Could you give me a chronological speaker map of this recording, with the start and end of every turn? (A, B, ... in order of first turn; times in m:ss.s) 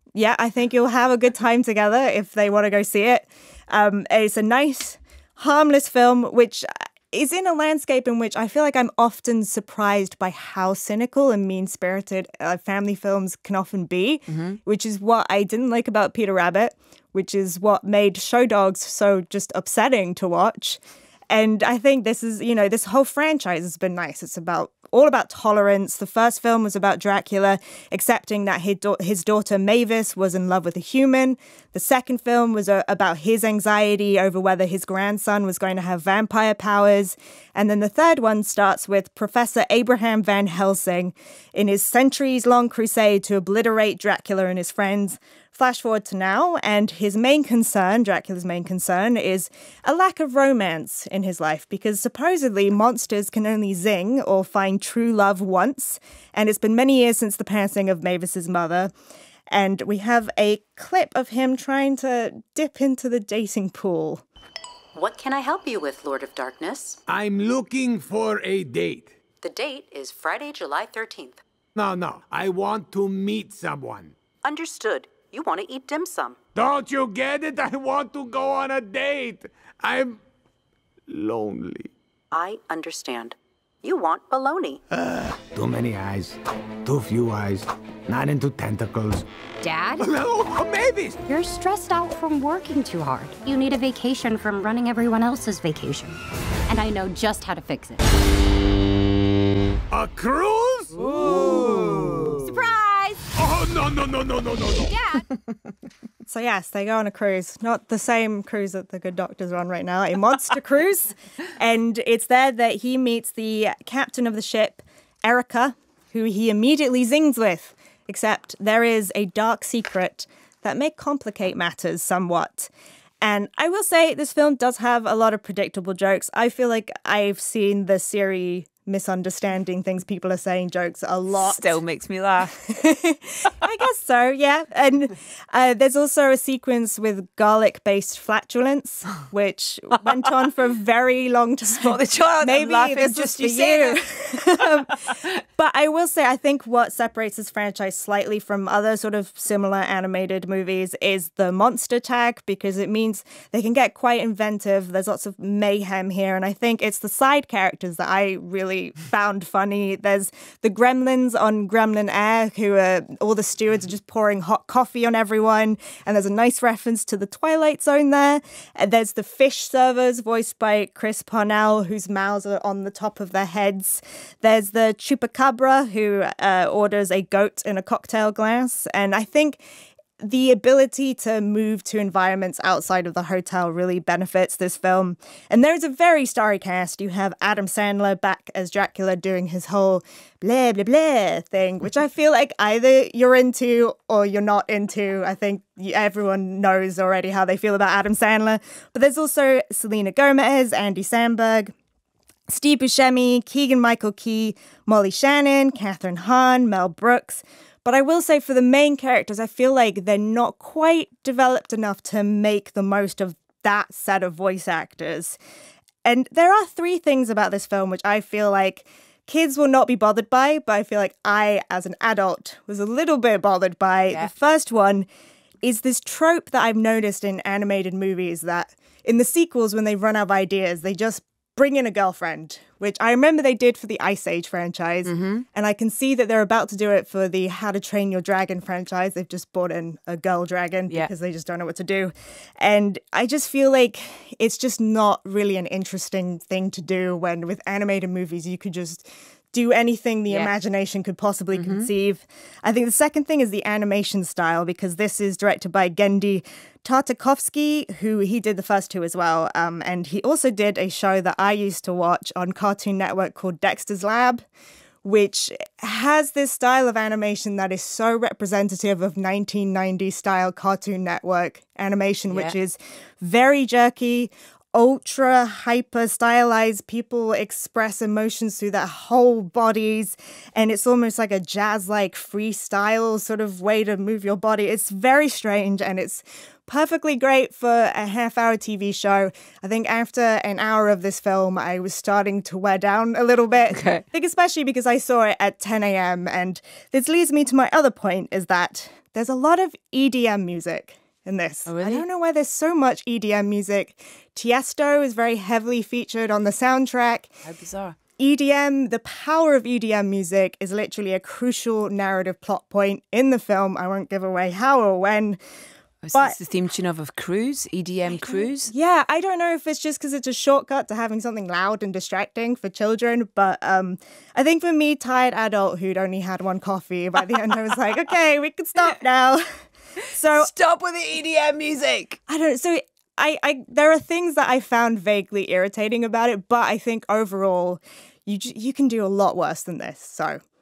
0:00.1-0:58.9 A
0:59.5-1:04.2 A
1:04.9-1:07.0 B
1:07.1-1:09.1 C
1:09.4-1:11.4 B
1:11.8-1:14.1 C
1:14.4-1:16.4 B
1:16.6-1:20.2 C
1:21.1-1:21.9 C
1:22.3-1:24.8 B
1:24.9-1:29.3 C
1:30.0-1:31.2 C
1:31.3-1:38.0 D
1:32.7-1:34.0 B
1:39.9-1:42.4 C
1:41.4-1:42.1 A
1:43.3-1:45.1 C
1:46.2-2:02.7 A
2:03.2-2:11.8 A
2:11.3-2:12.6 E
2:12.6-2:59.6 A
2:21.7-2:24.0 E
3:00.2-3:21.7 A
3:22.5-3:35.4 A
3:36.0-3:45.1 A
3:45.6-4:24.4 A
3:55.1-3:55.4 E
4:11.6-4:11.9 E
4:25.0-5:07.3 A
4:53.7-4:54.0 E
5:01.7-5:02.0 E
5:07.4-5:08.0 E
5:08.2-5:15.4 A
5:16.0-5:18.7 E
5:18.1-5:29.4 A
5:30.0-5:30.5 A
5:30.3-5:32.2 E
5:32.3-5:40.4 A